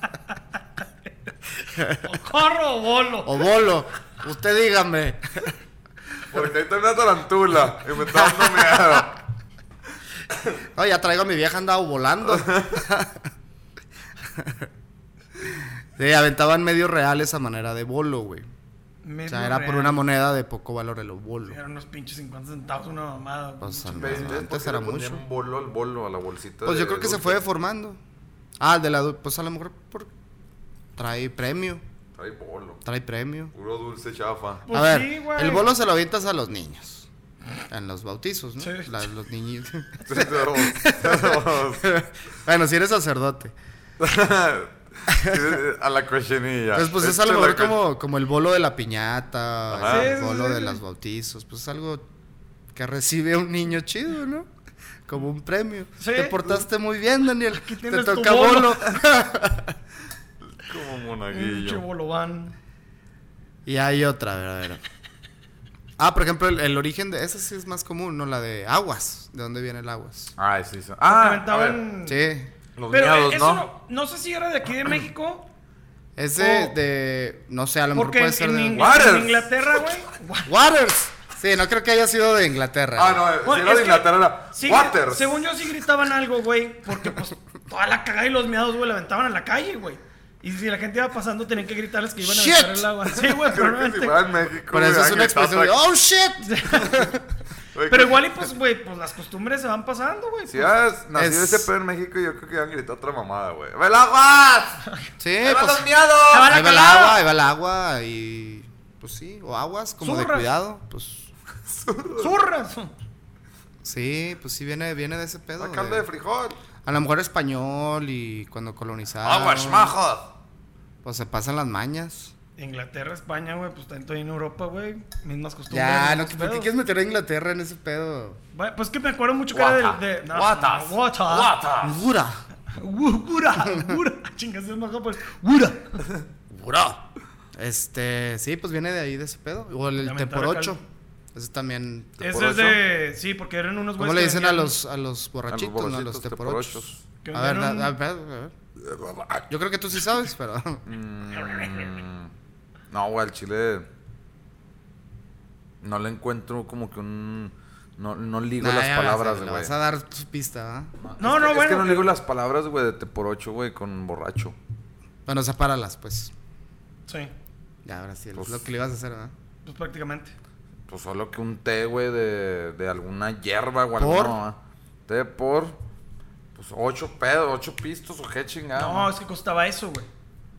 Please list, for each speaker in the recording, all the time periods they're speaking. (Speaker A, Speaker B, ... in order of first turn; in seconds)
Speaker A: 1.8-2.1, 3.2-5.5, 8.1-9.0, 10.8-13.2, 14.3-14.7, 15.4-18.5, 19.3-21.6, 23.6-25.2, 26.6-28.0, 28.6-30.1, 31.0-31.8, 32.8-33.5, 34.7-37.1, 37.7-43.5, 45.1-45.6, 46.7-52.1, 52.7-54.5, 55.1-59.8, 63.7-64.8, 66.0-70.3, 72.1-72.5, 76.2-79.0, 80.5-83.3, 92.2-92.9, 94.7-97.2, 101.2-101.7, 105.2-105.9, 106.4-111.3, 113.8-116.0, 116.8-119.9, 121.0-122.3, 125.7-128.4, 131.8-132.4, 133.6-134.0, 137.5-140.8, 141.3-142.2, 144.0-148.5, 149.5-150.8, 158.6-160.9, 165.3-166.3, 167.8-169.3, 174.0-174.4
Speaker B: 1.9-3.5, 19.0-20.0, 21.5-24.4, 34.6-35.7, 38.6-39.0, 49.9-50.8, 56.0-56.4, 57.5-58.8, 61.3-62.5, 71.1-72.2, 72.9-75.5, 76.4-76.8, 77.9-80.5, 83.4-94.2, 96.4-97.0, 97.9-100.7, 106.3-107.2, 110.0-110.5, 112.2-112.9, 122.6-126.7, 128.5-131.6, 132.7-136.1, 140.0-140.8, 142.2-144.8, 147.2-147.9, 151.3-152.0, 161.2-162.1, 169.7-170.3, 178.8-180.1
Speaker C: 6.3-9.2, 12.3-12.8, 23.9-27.4, 32.1-32.8, 33.5-34.6, 40.0-41.9, 44.0-47.8, 49.7-50.1, 60.4-61.9, 70.4-71.8, 72.8-73.7, 78.8-79.5, 83.0-85.4, 93.2-95.8, 97.7-98.5, 100.5-104.8, 105.4-106.5, 111.7-112.3, 115.6-116.6, 119.2-120.3, 129.5-132.0, 136.5-137.0, 142.2-142.8, 145.5-147.0, 148.8-149.5, 150.9-152.3, 152.9-153.9, 155.8-159.7, 161.0-164.6, 168.4-168.6, 170.9-175.8, 176.6-179.1